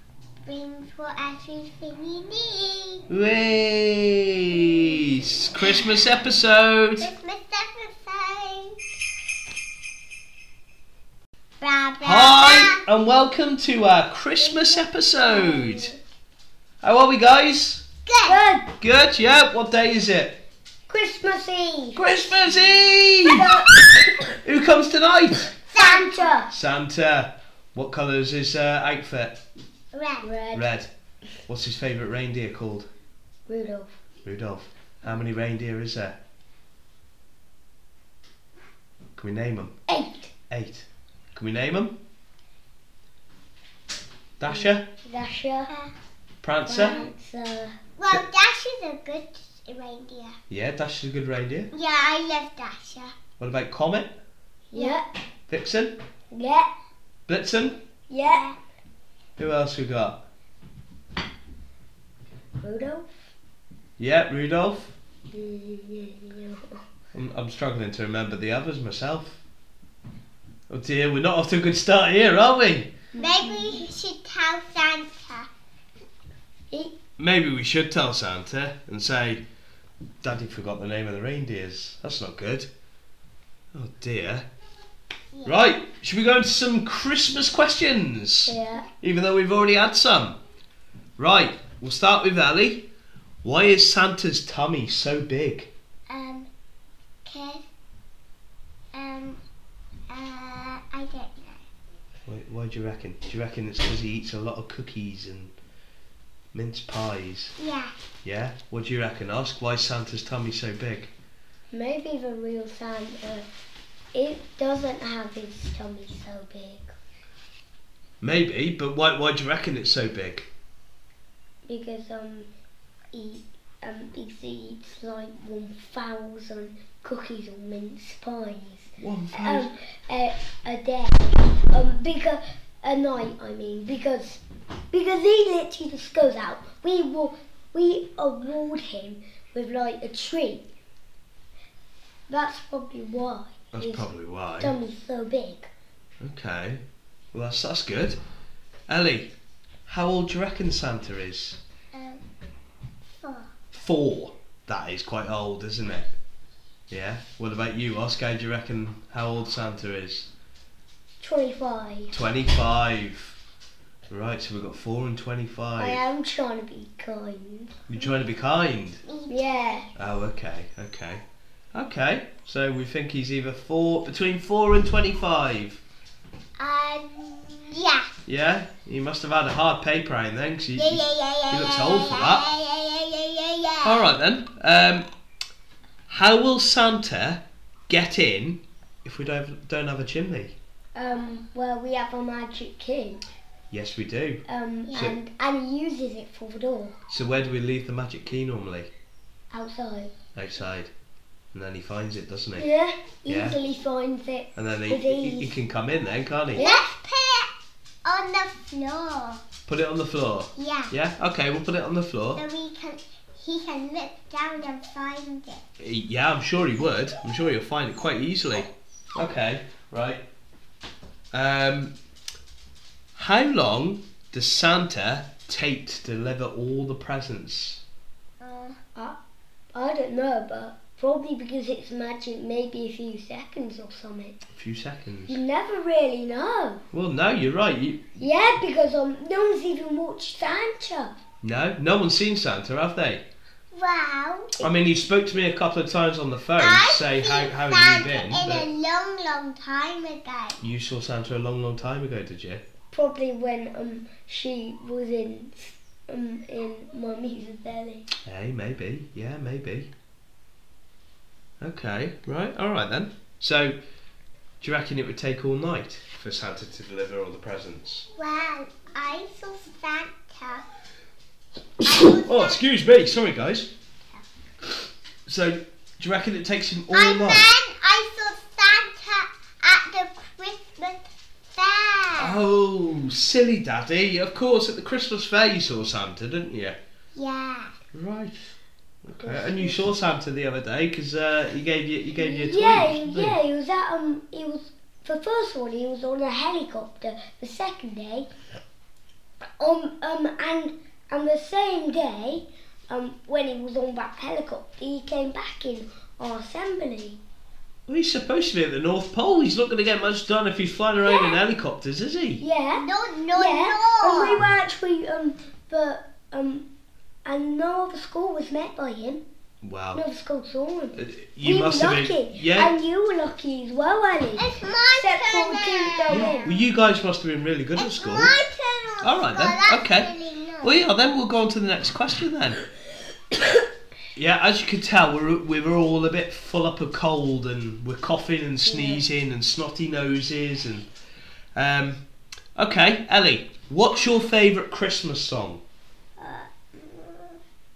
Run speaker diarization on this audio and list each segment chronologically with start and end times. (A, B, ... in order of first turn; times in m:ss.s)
0:00.4-0:03.0 A
0:03.1-0:07.1 B
0:07.0-0:08.8 A
0:11.6-0:12.8 A
0:12.0-0:15.9 B
0:14.5-0:14.8 A
0:15.5-0:15.9 C
0:16.8-0:17.8 B
0:18.0-0:18.4 A
0:18.3-0:18.7 C
0:18.8-0:20.4 B
0:20.9-0:22.0 C
0:22.0-0:23.5 B
0:23.2-0:24.1 C
0:24.4-0:25.5 B
0:25.7-0:26.3 A
0:25.7-0:26.5 C
0:26.5-0:29.4 B
0:29.9-0:30.3 A
0:30.2-0:30.7 C
0:30.5-0:30.9 B
0:31.5-0:32.9 B
0:33.5-0:34.0 C
0:34.2-0:36.2 B
0:39.2-0:39.7 B
0:39.9-0:40.3 C
0:40.5-0:41.9 B
0:44.4-0:44.8 B
0:44.5-0:45.7 C
0:46.4-0:47.0 B
0:46.6-0:47.7 C
0:46.8-0:47.1 A
0:48.0-0:50.4 A
0:50.5-0:51.7 B
0:51.7-0:53.1 A
0:53.4-0:54.1 B
0:54.7-0:55.2 C
0:54.7-0:55.0 A
0:55.5-0:56.0 B
0:56.3-0:56.7 C
0:57.3-0:57.8 B
0:58.1-0:58.5 C
0:58.2-0:58.6 A
0:59.4-1:00.2 B
1:02.6-1:03.1 C
1:04.0-1:04.9 B
1:05.3-1:06.8 C
1:07.1-1:09.4 B
1:10.7-1:12.9 B
1:13.1-1:13.8 C
1:13.2-1:15.5 A
1:17.2-1:19.4 B
1:20.2-1:22.7 B
1:23.7-1:24.4 B
1:25.3-1:25.7 A
1:25.4-1:30.4 B
1:28.5-1:28.8 C
1:31.2-1:32.8 B
1:33.4-1:35.7 B
1:36.1-1:36.5 A
1:37.2-1:37.6 A
1:38.9-1:39.4 A
1:40.1-1:41.6 A
1:42.2-1:45.5 B
1:46.5-1:47.5 B
1:47.6-1:47.9 A
1:48.2-1:51.1 B
1:51.7-1:53.4 C
1:54.1-1:56.9 C
1:58.2-2:00.4 B
2:01.6-2:02.5 C
2:03.1-2:20.6 C
2:09.0-2:09.7 B
2:22.3-2:24.1 C
2:23.7-2:24.7 B
2:24.6-2:25.7 C
2:26.2-2:28.2 B
2:28.9-2:29.3 B
2:29.9-2:31.6 B
2:31.9-2:32.2 A
2:33.2-2:33.5 A
2:33.7-2:36.1 B
2:36.9-2:40.3 B
2:41.2-2:42.1 C
2:42.1-2:43.4 B
2:44.1-2:46.0 B
2:45.8-2:47.8 C
2:47.9-2:49.0 B
2:49.0-2:49.8 A
2:49.3-2:49.9 C
2:50.0-2:51.2 B
2:51.7-2:55.8 B
2:56.6-2:58.1 A
2:58.3-3:02.5 B
3:00.8-3:04.1 A
3:03.8-3:05.1 B
3:06.1-3:10.6 B
3:10.9-3:13.2 C
3:13.7-3:14.4 B
3:14.5-3:17.0 C
3:14.8-3:15.2 A
3:17.1-3:18.9 B
3:19.5-3:20.1 C
3:20.3-3:20.9 B
3:21.5-3:22.6 B
3:22.6-3:25.6 C
3:23.2-3:23.6 B
3:24.6-3:26.7 B
3:26.5-3:27.5 A
3:26.6-3:26.9 C
3:28.0-3:29.4 A
3:29.7-3:32.4 B
3:30.6-3:30.9 A
3:32.3-3:35.6 A
3:35.8-3:40.2 B
3:41.3-3:41.9 B
3:43.1-3:47.8 B
3:48.4-3:48.8 A
3:49.7-3:54.4 C
3:54.5-3:55.4 B
3:55.3-3:56.8 C
3:56.9-3:58.0 B
3:58.2-4:01.1 C
4:01.4-4:03.2 B
4:03.7-4:04.5 A
4:04.6-4:08.7 B
4:06.6-4:10.6 A
4:10.6-4:12.6 B
4:12.9-4:18.1 C
4:18.2-4:19.9 B
4:21.6-4:23.8 B
4:24.6-4:28.1 B
4:28.2-4:30.6 A
4:31.8-4:32.6 A
4:31.8-4:33.7 B
4:35.2-4:37.5 B
4:36.9-4:42.4 A
4:42.2-4:46.8 B
4:47.1-4:47.7 A
4:47.9-4:48.4 B
4:49.0-4:53.4 B
4:49.2-4:49.9 C
4:52.2-4:58.3 C
4:59.6-5:07.2 C
5:07.9-5:12.4 B
5:12.4-5:16.7 C
5:12.7-5:14.5 A
5:17.2-5:19.2 C
5:19.6-5:20.0 B
5:19.9-5:26.6 C
5:21.0-5:22.7 B
5:24.4-5:26.5 A
5:26.1-5:28.3 B
5:27.8-5:30.8 A
5:29.0-5:30.1 B
5:30.6-5:32.6 B
5:34.1-5:40.8 B
5:38.6-5:39.0 C
5:41.6-5:42.0 B
5:42.6-5:45.6 B
5:46.8-5:47.3 A